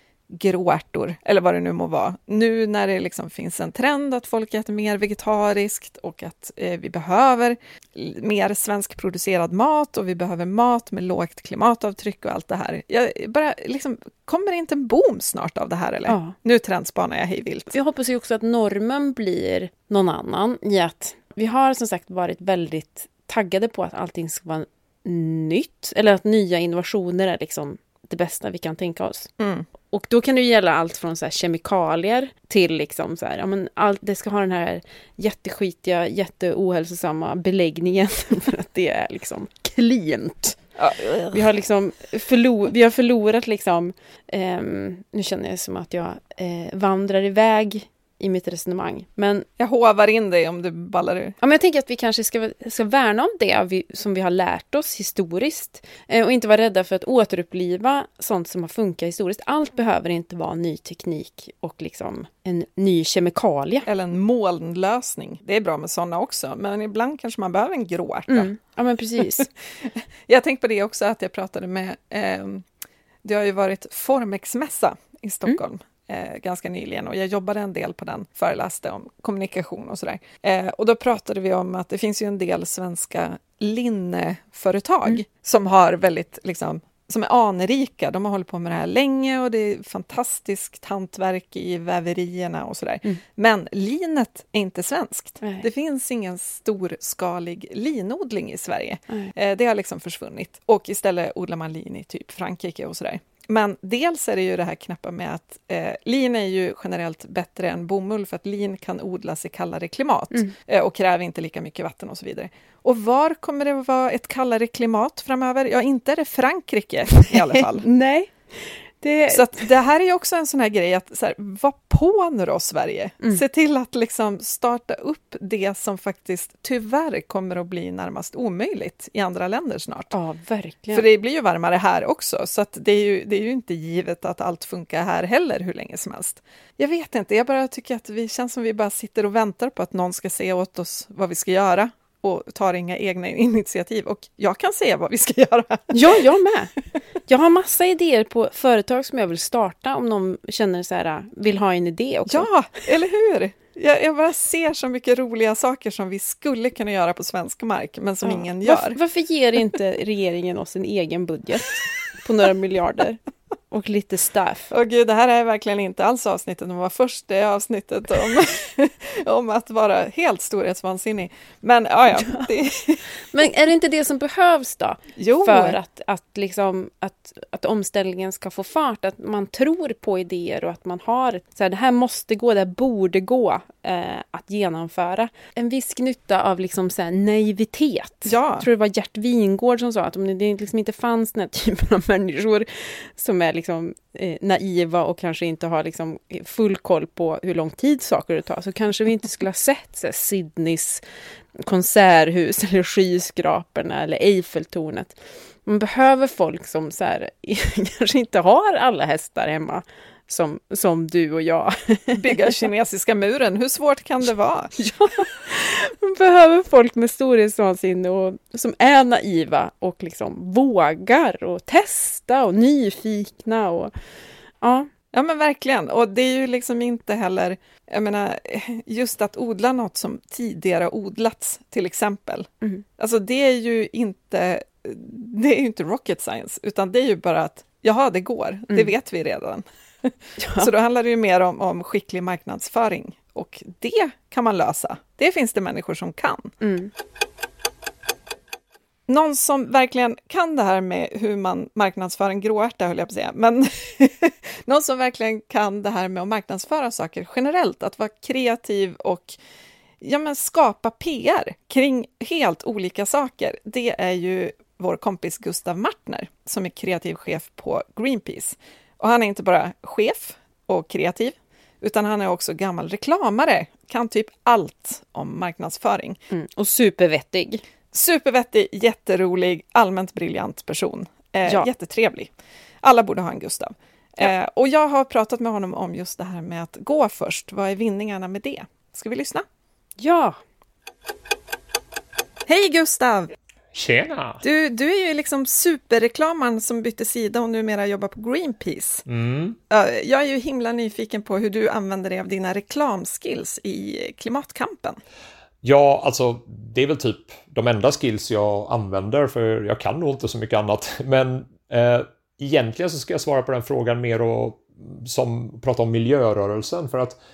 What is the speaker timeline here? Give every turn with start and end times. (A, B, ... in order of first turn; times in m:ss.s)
0:00.3-0:17.8 A
0:16.1-0:16.4 B
0:17.7-0:29.3 B
0:29.4-0:29.7 A
0:29.9-0:40.6 B
0:40.8-0:41.4 A
0:41.3-0:49.5 B
0:49.6-0:51.4 A
0:51.4-1:03.9 B
1:03.9-1:08.5 A
1:08.3-1:09.5 B
1:10.0-1:12.7 A
1:13.2-1:57.9 A
1:35.4-1:35.7 B
1:57.8-1:59.6 B
1:59.3-2:10.2 A
2:10.1-2:11.1 B
2:10.9-2:26.2 A
2:25.9-2:26.7 B
2:27.3-2:32.5 B
2:32.3-2:39.0 A
2:38.2-2:43.2 B
2:43.7-2:44.7 B
2:44.7-2:53.0 A
2:52.2-2:52.5 B
2:53.3-3:21.0 B
2:55.2-2:55.8 A
3:08.3-3:08.7 A
3:21.6-3:32.2 B
3:32.1-3:34.8 A
3:34.8-3:43.9 B
3:44.6-3:44.9 B
3:45.1-4:06.5 A
4:00.4-4:00.7 B
4:06.6-4:06.9 B
4:09.1-4:19.4 A
4:20.0-4:36.2 A
4:36.3-4:37.6 B
4:37.9-4:42.3 A
4:42.8-4:49.5 A
4:50.0-4:50.4 B
4:52.5-4:53.3 A
4:53.7-4:54.4 C
4:54.4-4:59.0 A
4:59.1-4:59.6 C
4:59.7-5:05.0 A
5:05.6-5:17.2 C